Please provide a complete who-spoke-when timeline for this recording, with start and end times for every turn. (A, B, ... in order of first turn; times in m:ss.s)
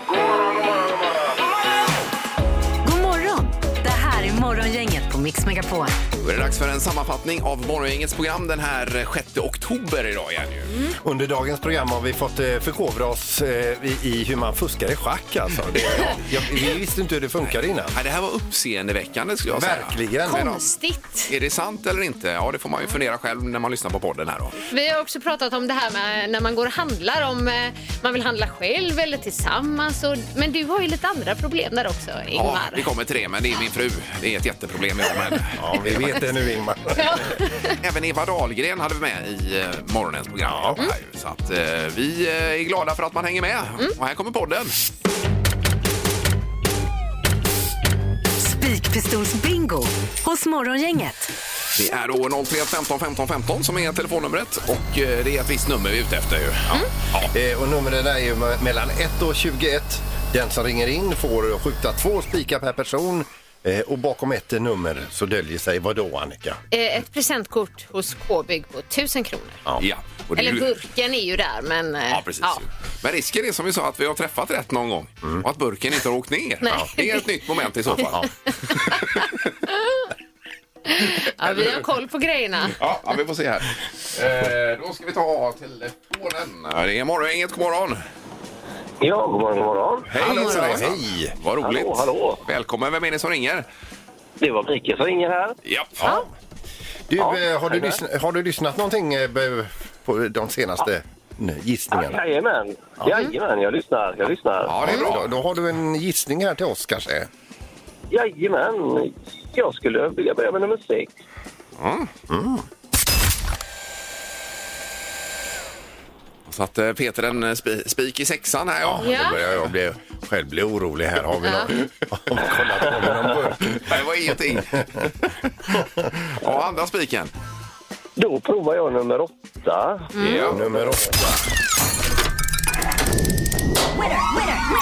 0:02.8-0:05.9 A
0:06.2-0:10.7 B
0:11.0-0:18.0 C
0:15.9-0:16.2 B
0:17.9-0:20.6 B
0:19.5-0:20.6 C
0:20.2-0:21.3 D
0:21.3-0:24.6 B
0:24.7-0:32.8 D
0:32.3-0:36.2 B
0:35.6-0:37.2 C
0:36.9-0:37.8 D
0:37.8-0:44.8 B
0:40.4-0:40.8 C
0:48.4-0:51.3 A
0:51.7-0:57.3 B
0:57.3-1:06.6 C
1:06.7-1:09.6 D
1:09.8-1:10.7 B
1:10.4-1:12.6 D
1:12.1-1:19.5 B
1:16.6-1:17.3 D
1:18.9-1:20.0 D
1:20.9-1:22.8 D
1:21.5-1:21.7 B
1:22.8-1:28.0 B
1:29.0-1:30.1 E
1:30.1-1:33.7 B
1:30.1-1:31.3 C
1:31.6-1:32.4 E
1:34.4-1:35.6 E
1:35.6-1:36.0 B
1:36.0-1:36.3 C
1:37.1-1:42.2 C
1:37.2-1:38.0 E
1:41.9-1:44.8 E
1:44.6-1:45.3 B
1:44.8-1:47.3 C
1:48.1-1:51.1 E
1:51.8-1:52.1 B
1:52.3-1:52.6 C
1:56.5-1:59.8 B
1:58.8-2:03.9 C
1:59.0-1:59.4 D
2:01.4-2:01.7 D
2:03.6-2:07.3 B
2:05.8-2:06.0 C
2:08.2-2:11.1 E
2:10.1-2:10.5 D
2:10.2-2:10.6 B
2:10.5-2:11.2 C